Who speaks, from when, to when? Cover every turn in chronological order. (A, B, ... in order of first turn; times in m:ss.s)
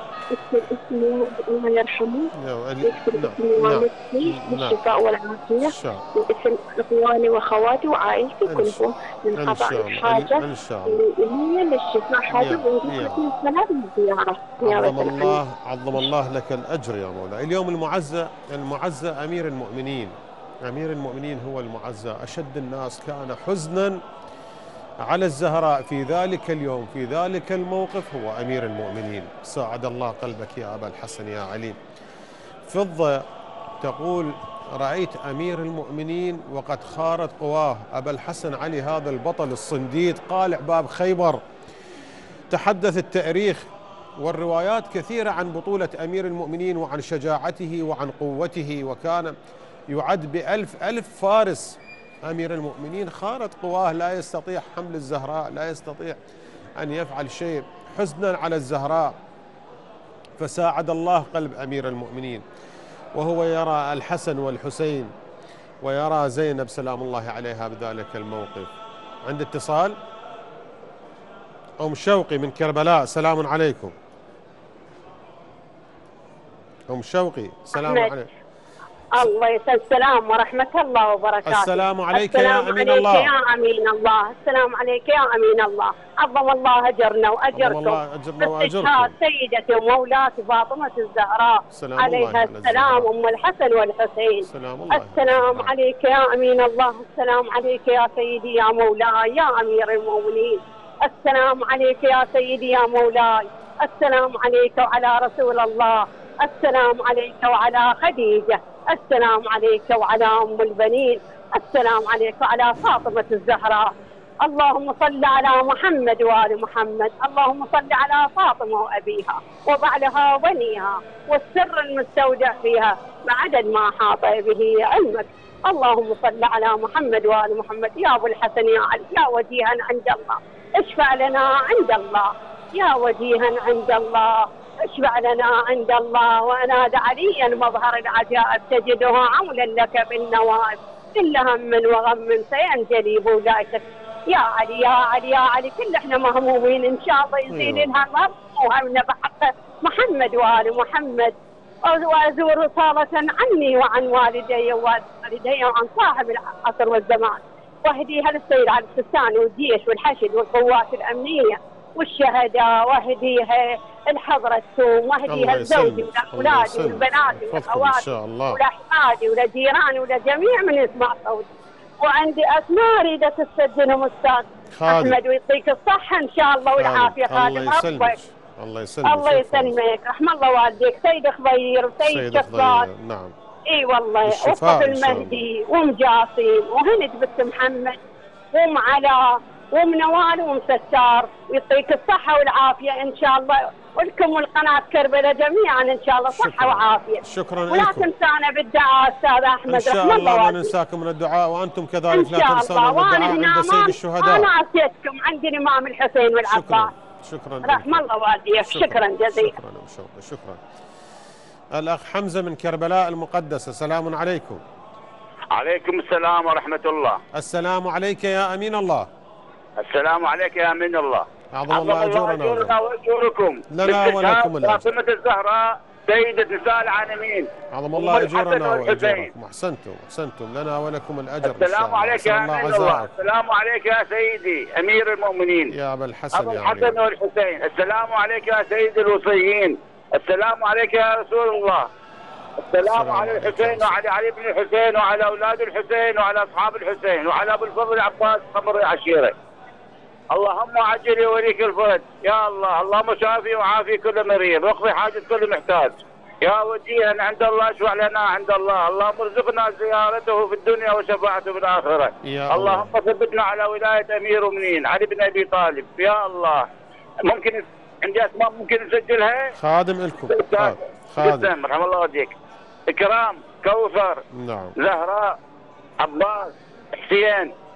0:00.3-0:02.3 A
0:02.4-0:04.8 B
0:02.8-0:15.4 A
0:05.6-0:06.0 B
0:08.5-0:08.8 B
0:09.4-0:11.0 B
0:12.3-0:13.2 B
0:14.6-0:24.0 B
0:25.0-0:31.8 B
0:32.7-0:33.2 B
0:33.8-0:41.4 B
0:42.5-0:43.6 B
0:44.2-0:49.4 B
0:49.9-0:56.2 B
0:56.8-0:59.2 B
1:00.4-1:02.4 B
1:03.1-1:05.1 B
1:05.8-1:08.7 B
1:09.2-1:10.0 B
1:11.8-1:13.9 B
1:16.9-1:18.3 B
1:17.8-1:18.1 C
1:19.2-1:53.9 C
1:21.4-1:23.3 B
1:27.5-1:29.1 B
1:31.7-1:33.1 B
1:34.4-1:35.7 B
1:54.4-2:51.5 C
2:27.5-2:27.9 B
2:45.3-2:48.6 B
2:52.0-2:58.2 C
2:54.7-2:55.2 B
2:56.8-2:59.8 B
2:59.0-3:02.9 C
3:02.0-3:03.3 B
3:03.7-3:08.0 C
3:04.2-3:05.4 B
3:08.5-3:20.7 C
3:16.3-3:18.1 B
3:19.7-3:24.5 B
3:22.1-3:26.9 C
3:26.5-3:28.0 B
3:27.6-3:29.5 C
3:28.7-3:30.6 B
3:31.7-3:34.6 B
3:35.5-3:37.2 D
3:37.3-3:39.1 B
3:39.8-3:49.3 D
3:41.5-3:42.8 B
3:43.7-3:44.9 B
3:47.7-3:53.1 B
3:51.4-3:55.7 D
3:55.7-3:57.0 B
3:56.3-4:01.9 D
4:02.7-4:09.3 D
4:02.8-4:04.0 B
4:10.3-4:26.7 D
4:22.2-4:22.9 B
4:27.2-4:29.5 D
4:29.6-4:31.5 B
4:30.3-4:32.3 D
4:32.9-4:34.2 D
4:34.3-4:34.7 B
4:34.8-4:35.4 D
4:36.0-4:37.5 D